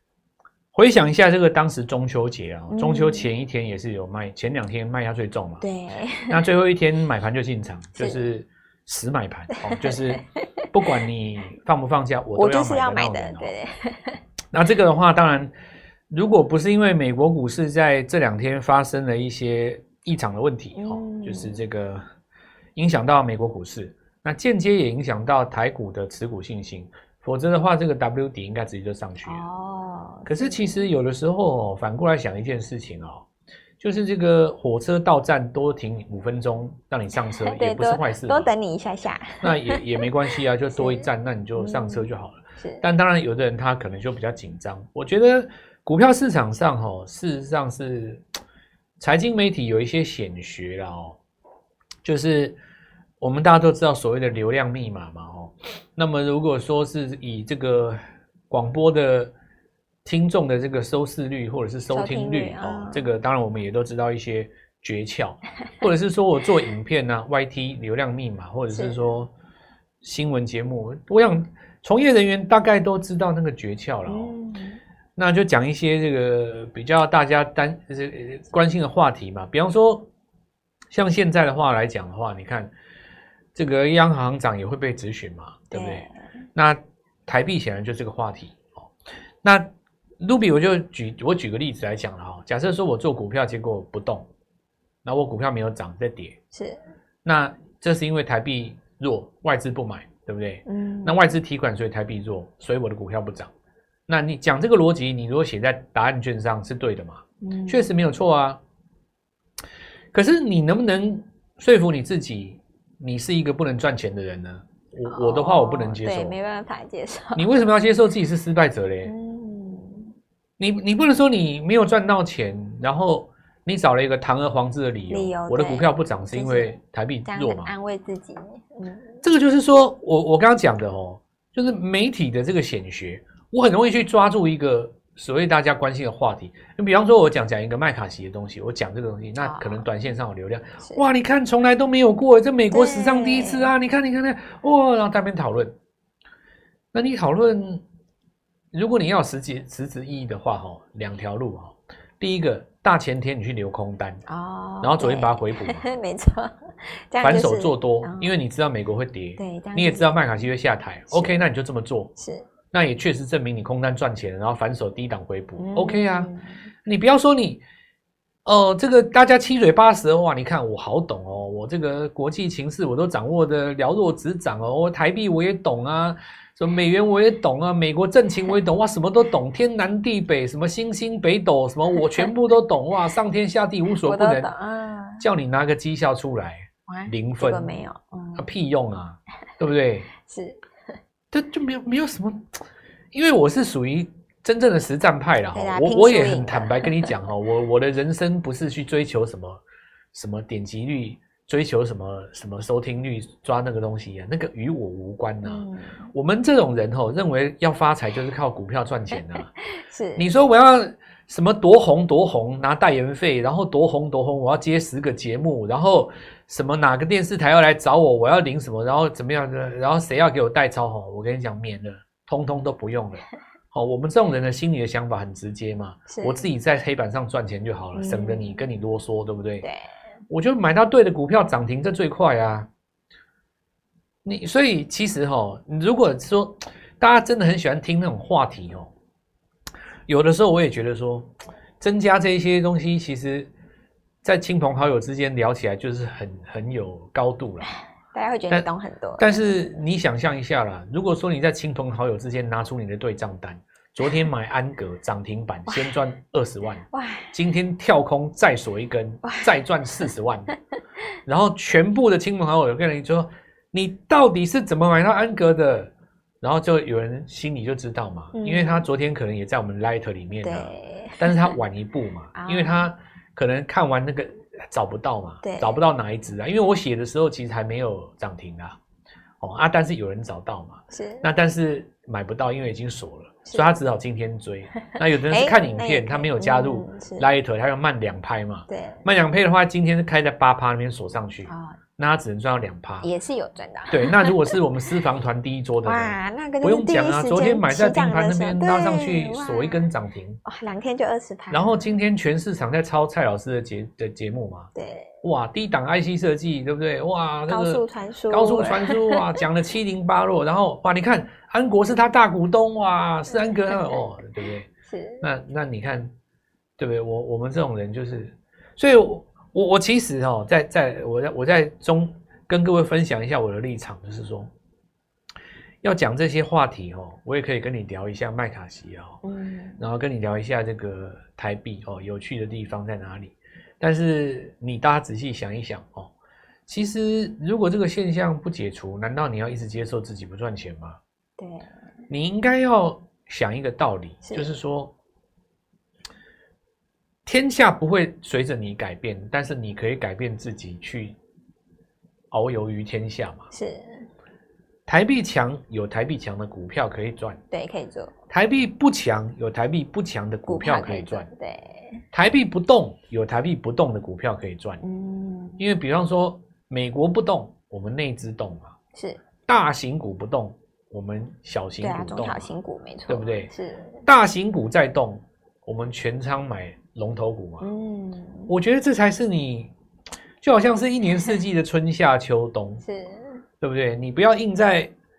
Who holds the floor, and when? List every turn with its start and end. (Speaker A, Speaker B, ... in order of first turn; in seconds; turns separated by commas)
Speaker A: 0.7-5.6, Speaker B: 2.7-3.3, Speaker B: 5.6-6.4, Speaker A: 6.3-13.5, Speaker B: 8.0-8.2, Speaker B: 9.5-10.4, Speaker B: 12.4-14.2, Speaker A: 14.5-15.5, Speaker A: 16.1-22.0, Speaker B: 20.8-21.6, Speaker A: 22.8-29.4, Speaker B: 29.2-30.9, Speaker A: 30.3-33.3, Speaker A: 33.8-38.5, Speaker B: 37.4-40.0, Speaker A: 39.4-48.2, Speaker B: 40.8-41.0, Speaker B: 41.6-42.8, Speaker A: 49.0-51.2, Speaker A: 52.0-52.6, Speaker A: 53.2-58.0, Speaker A: 58.5-59.3, Speaker A: 60.0-69.3, Speaker B: 61.9-63.0, Speaker B: 68.7-69.0, Speaker A: 70.0-74.3, Speaker B: 74.1-74.8, Speaker A: 75.2-80.1, Speaker A: 80.9-82.7, Speaker A: 83.5-88.9, Speaker B: 85.7-86.1, Speaker A: 89.4-89.7, Speaker A: 90.2-94.3, Speaker A: 95.0-96.4, Speaker B: 96.5-96.8, Speaker A: 97.2-103.5, Speaker B: 100.7-101.2, Speaker A: 104.1-108.6, Speaker B: 107.4-107.9, Speaker A: 110.1-116.4, Speaker B: 115.1-117.5, Speaker A: 117.3-119.1, Speaker B: 119.0-120.1, Speaker A: 120.6-127.7, Speaker B: 125.1-126.8, Speaker B: 127.3-129.2, Speaker A: 129.2-145.8, Speaker B: 139.4-139.8, Speaker B: 142.7-143.7, Speaker A: 146.9-147.8, Speaker A: 148.7-154.2, Speaker B: 154.3-156.5, Speaker A: 154.8-155.8, Speaker B: 157.1-158.3, Speaker A: 157.2-162.1, Speaker B: 159.4-160.1, Speaker B: 161.1-161.4, Speaker B: 162.2-162.5, Speaker A: 162.7-166.3, Speaker B: 165.6-166.5, Speaker A: 166.8-167.6, Speaker A: 168.4-184.5, Speaker B: 184.0-185.2, Speaker A: 185.2-187.7, Speaker B: 186.9-188.5, Speaker A: 188.4-190.1, Speaker B: 190.2-190.6, Speaker A: 191.3-199.6, Speaker B: 195.5-197.1, Speaker A: 200.1-209.5, Speaker B: 205.4-206.1, Speaker B: 209.8-210.3, Speaker A: 210.2-229.7, Speaker B: 226.1-226.4, Speaker B: 227.9-228.6, Speaker A: 230.3-232.7, Speaker A: 234.2-238.9, Speaker A: 240.1-243.5, Speaker A: 244.2-247.7, Speaker B: 248.1-249.3, Speaker A: 249.2-260.5, Speaker B: 255.7-255.9, Speaker B: 256.9-257.3, Speaker B: 259.2-259.5, Speaker A: 261.3-265.9, Speaker A: 266.4-278.8, Speaker B: 268.3-268.9, Speaker B: 270.4-271.4, Speaker B: 272.4-272.9, Speaker B: 275.4-275.8, Speaker A: 279.4-293.1, Speaker B: 280.9-281.3, Speaker B: 285.3-287.3, Speaker B: 288.7-289.0, Speaker B: 291.5-291.8, Speaker B: 293.0-294.4, Speaker A: 293.9-300.4, Speaker B: 295.9-299.9, Speaker B: 300.4-301.9, Speaker A: 301.5-304.7, Speaker B: 304.8-305.1, Speaker A: 305.2-314.7, Speaker B: 307.5-309.4, Speaker B: 314.9-315.2, Speaker A: 315.2-316.1, Speaker A: 316.8-324.5, Speaker A: 325.8-329.2, Speaker B: 329.2-329.8, Speaker A: 329.8-336.1, Speaker A: 336.7-341.0, Speaker B: 341.4-341.7, Speaker A: 342.1-344.9, Speaker A: 347.3-351.2, Speaker A: 352.3-353.5, Speaker B: 353.5-354.1, Speaker A: 354.9-357.4, Speaker B: 357.5-358.1, Speaker A: 358.3-361.3, Speaker B: 360.5-362.0, Speaker A: 362.1-364.8, Speaker B: 364.8-365.6, Speaker A: 365.6-368.7, Speaker B: 368.9-369.2, Speaker A: 369.5-372.5, Speaker B: 371.8-374.0, Speaker A: 373.1-373.5, Speaker A: 374.1-377.7, Speaker B: 377.6-378.5, Speaker A: 378.5-379.7, Speaker A: 380.4-382.8, Speaker B: 382.8-383.4, Speaker A: 383.6-384.9